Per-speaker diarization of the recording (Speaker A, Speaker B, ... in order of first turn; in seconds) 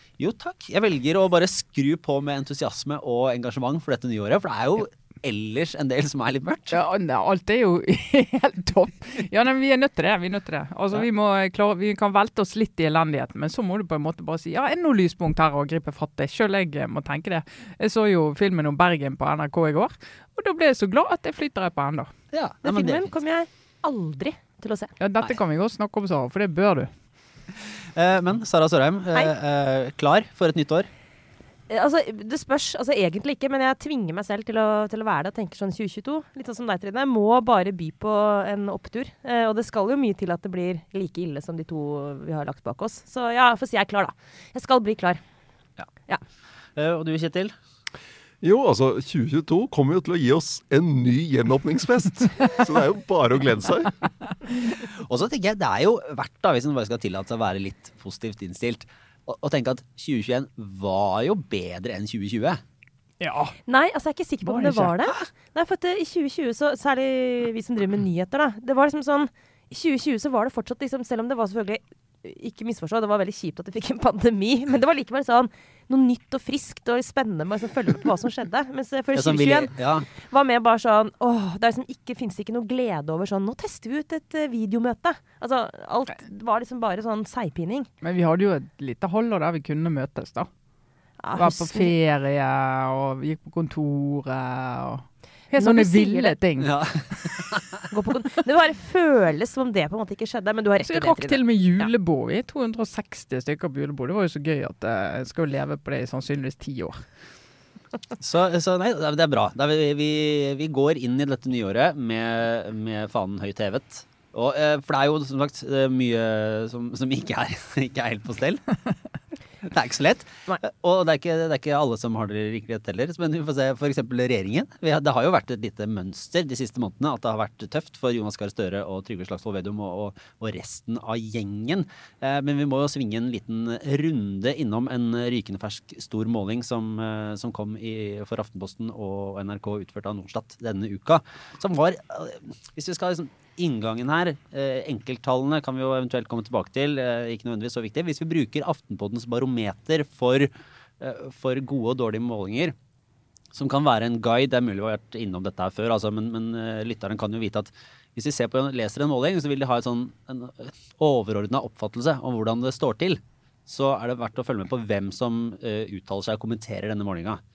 Speaker A: 0.2-6.8, 22.3-23.1, 27.9-30.9, 46.8-47.5, 54.5-62.6, 79.2-80.1, 96.6-97.8, 108.2-118.6, 119.6-152.8, 153.5-167.4
Speaker B: 6.7-22.1, 25.0-26.9, 63.2-63.5, 64.4-64.9, 88.0-90.5, 91.4-96.8, 100.8-107.1
Speaker C: 22.6-24.9, 31.7-45.2, 63.7-87.9, 91.2-91.9, 95.6-96.3, 97.9-101.9
Speaker D: 48.4-54.0